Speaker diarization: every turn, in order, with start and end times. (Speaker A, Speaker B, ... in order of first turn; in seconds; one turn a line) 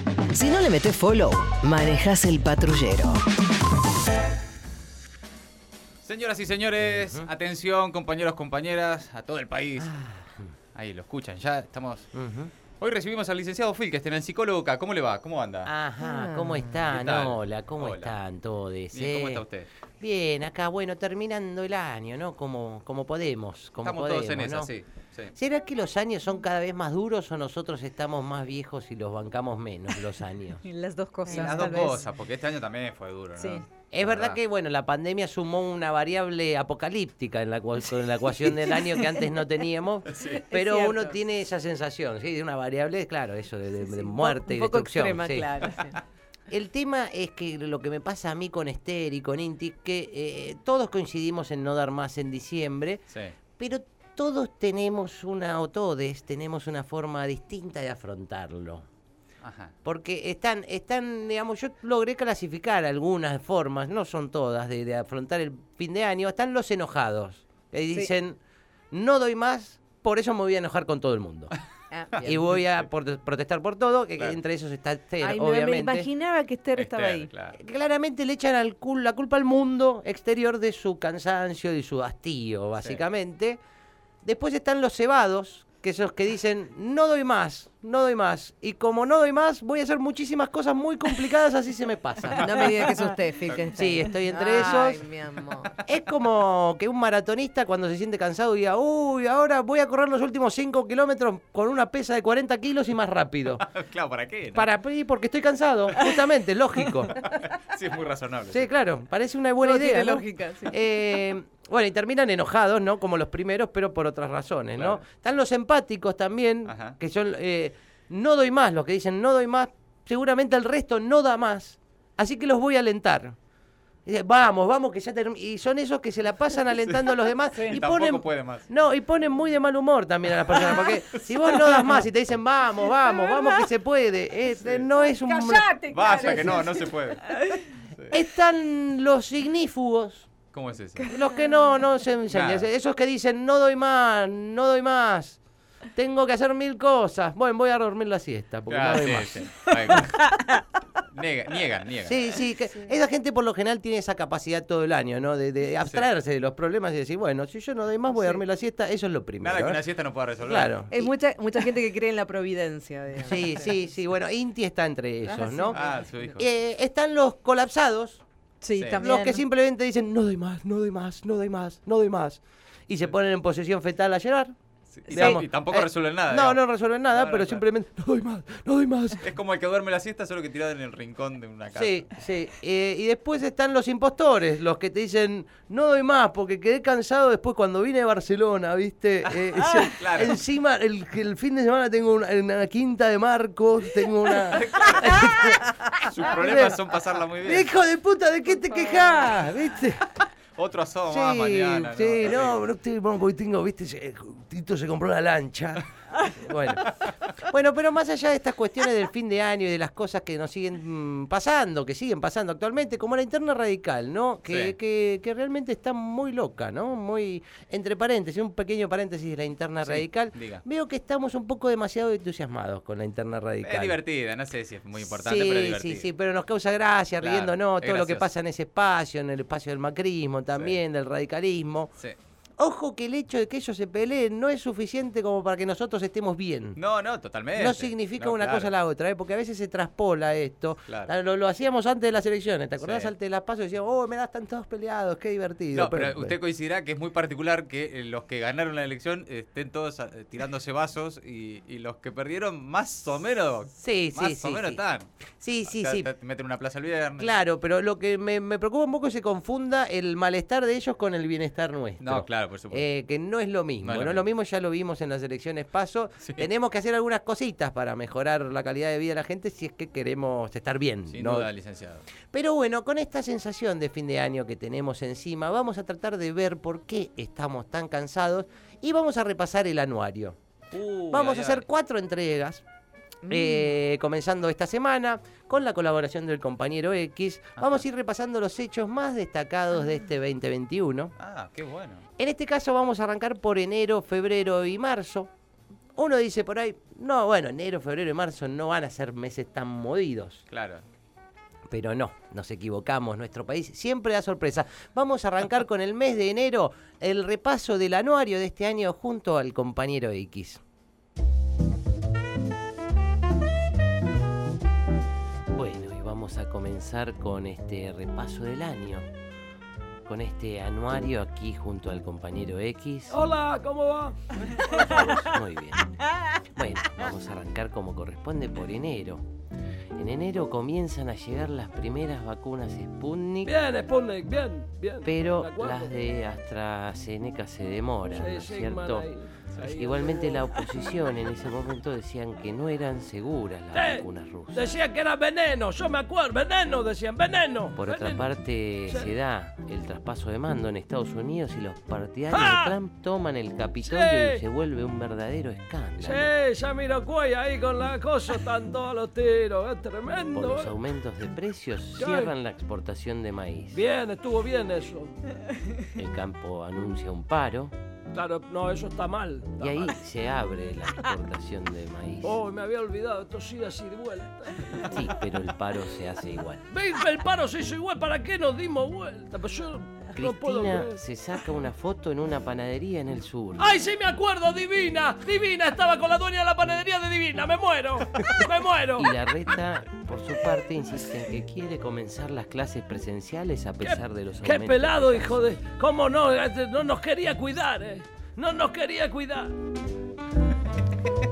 Speaker A: 0.3-3.2
Speaker B: 6.0-9.9
Speaker C: 6.8-7.3
Speaker C: 9.8-10.5
Speaker B: 10.8-12.1
Speaker C: 12.1-12.5
Speaker B: 12.8-15.7
Speaker C: 15.7-19.4
Speaker D: 16.1-16.5
Speaker B: 16.9-18.2
Speaker B: 18.9-19.7
Speaker C: 20.0-24.7
Speaker B: 23.8-25.4
Speaker C: 25.4-30.6
Speaker D: 30.6-32.0
Speaker B: 31.3-34.4
Speaker D: 33.4-33.6
Speaker C: 33.9-45.8
Speaker B: 40.1-40.5
Speaker D: 40.5-41.1
Speaker D: 43.8-46.0
Speaker C: 46.5-53.0
Speaker B: 53.1-53.3
Speaker C: 53.6-58.9
Speaker B: 59.4-59.7
Speaker C: 59.8-68.4
Speaker C: 68.9-71.5
Speaker D: 71.9-72.4
Speaker B: 72.2-72.9
Speaker C: 72.2-76.1
Speaker D: 75.2-77.3
Speaker B: 76.8-77.5
Speaker C: 77.5-83.6
Speaker C: 84.2-92.9
Speaker D: 92.4-95.7
Speaker C: 93.7-95.0
Speaker C: 95.9-103.7
Speaker B: 103.7-104.7
Speaker C: 104.5-107.2
Speaker B: 107.1-108.7
Speaker C: 108.5-123.4
Speaker D: 109.6-110.8
Speaker B: 116.7-117.0
Speaker C: 124.1-136.7
Speaker B: 126.9-128.7
Speaker B: 131.4-131.8
Speaker D: 135.1-136.7
Speaker B: 135.8-138.1
Speaker C: 138.1-140.3
Speaker B: 140.5-141.1
Speaker C: 141.1-145.4
Speaker B: 142.3-142.7
Speaker C: 145.9-150.1
Speaker B: 148.7-150.4
Speaker B: 151.1-152.4
Speaker C: 152.1-159.8
Speaker B: 159.4-160.8
Speaker C: 160.4-161.1
Speaker D: 160.9-163.7
Speaker C: 163.2-165.8
Speaker D: 165.3-165.8
Speaker B: 165.7-166.4
Speaker C: 166.4-168.2
Speaker D: 168.6-169.4
Speaker B: 168.8-169.0
Speaker C: 169.0-174.6
Speaker B: 174.9-177.6
Speaker C: 175.1-179.3
Speaker B: 179.2-182.0
Speaker C: 181.7-196.8
Speaker B: 189.3-190.4
Speaker B: 194.5-197.7
Speaker C: 197.4-200.1
Speaker B: 200.6-202.6
Speaker C: 201.1-224.0
Speaker B: 214.5-214.8
Speaker B: 219.8-220.6
Speaker B: 223.6-226.1
Speaker C: 225.0-231.9
Speaker B: 227.2-228.3
Speaker C: 232.6-236.8
Speaker B: 236.8-238.7
Speaker C: 237.6-246.4
Speaker B: 240.9-241.1
Speaker B: 242.8-243.1
Speaker B: 245.7-255.1
Speaker C: 253.7-254.8
Speaker C: 255.4-256.1
Speaker B: 255.7-257.4
Speaker C: 257.2-271.5
Speaker B: 262.0-262.9
Speaker B: 263.8-264.3
Speaker B: 271.1-272.1
Speaker C: 272.3-280.4
Speaker B: 280.7-281.7
Speaker C: 281.1-282.6
Speaker C: 283.3-291.1
Speaker B: 287.6-287.8
Speaker B: 291.2-292.0
Speaker C: 292.2-295.3
Speaker C: 296.0-300.4
Speaker B: 300.5-300.8
Speaker C: 301.7-310.6
Speaker C: 315.5-319.1
Speaker C: 320.1-323.2
Speaker E: 323.1-325.0
Speaker C: 324.5-329.3
Speaker C: 330.0-333.5
Speaker E: 333.4-336.0
Speaker C: 335.0-339.1
Speaker E: 338.1-340.5
Speaker C: 339.6-344.7
Speaker E: 343.7-348.3
Speaker C: 347.8-356.3
Speaker E: 348.9-349.1
Speaker E: 352.3-352.7
Speaker E: 353.9-354.4
Speaker E: 356.1-360.7
Speaker C: 360.4-363.8
Speaker E: 362.0-362.3
Speaker E: 363.7-365.2
Speaker C: 365.9-367.7
Speaker E: 368.1-370.0
Speaker C: 369.6-372.4
Speaker E: 372.2-374.8
Speaker C: 374.8-376.7
Speaker E: 376.7-381.0
Speaker C: 380.1-383.8
Speaker E: 383.6-389.1
Speaker C: 389.0-395.5
Speaker E: 393.8-399.6